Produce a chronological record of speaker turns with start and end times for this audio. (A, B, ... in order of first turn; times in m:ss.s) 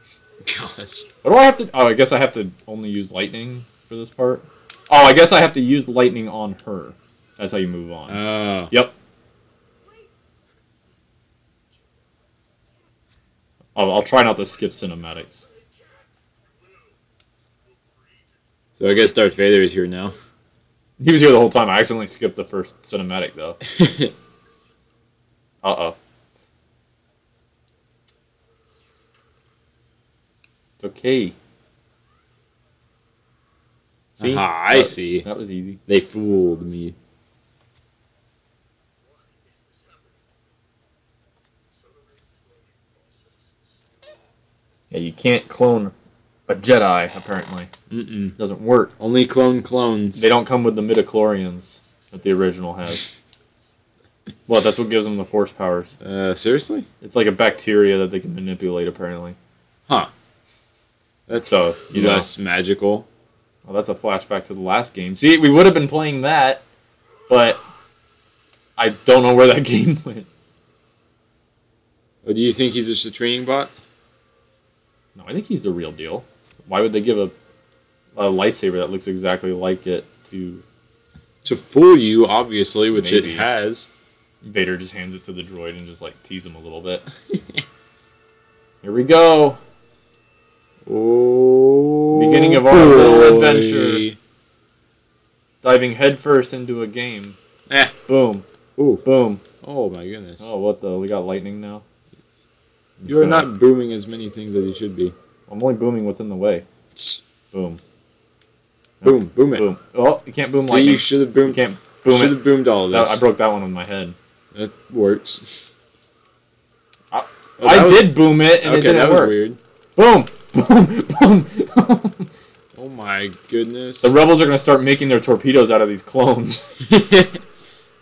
0:00.4-0:01.0 A
0:01.2-0:08.9 B
0:08.1-0:08.7 A
0:13.8-0:15.4 B
0:18.8-0:20.1 A
0:21.0-0:23.6 B
0:23.7-0:24.1 A
0:25.6-0:26.0 B
0:30.8-0:31.3 B
0:34.2-0:35.8 B
0:34.2-0:35.3 A
0:35.9-0:37.0 A
0:44.9-0:45.9 B
0:46.5-0:47.7 B
0:47.9-0:48.4 A
0:48.4-0:48.9 B
0:49.0-0:50.3 A
0:50.2-0:53.1 B
0:54.5-0:55.9 B
0:56.0-0:56.9 A
0:57.0-0:59.4 B
1:01.3-1:03.1 A
1:01.4-1:02.3 B
1:03.7-1:06.6 B
1:07.3-1:07.6 B
1:08.8-1:10.3 B
1:12.2-1:13.8 A
1:15.2-1:17.3 B
1:18.2-1:20.6 B
1:21.4-1:23.9 A
1:22.9-1:23.5 B
1:24.4-1:27.0 B
1:27.3-1:27.6 A
1:28.8-1:29.6 B
1:30.9-1:34.2 A
1:32.1-1:34.1 B
1:35.6-1:37.4 B
1:38.1-1:38.4 B
1:38.8-1:39.0 A
1:39.0-1:39.4 B
1:39.6-1:40.5 A
1:40.4-1:41.8 B
1:43.0-1:43.5 B
1:43.1-1:45.2 A
1:45.5-1:46.7 B
1:47.0-1:47.2 A
1:47.5-1:47.8 B
1:49.0-1:54.2 B
1:49.0-1:49.7 A
1:50.6-1:53.2 A
1:54.5-1:55.7 A
1:57.1-1:59.4 B
1:57.6-1:59.6 A
2:00.0-2:02.3 B
2:02.8-2:04.2 A
2:04.0-2:06.7 B
2:06.8-2:07.4 A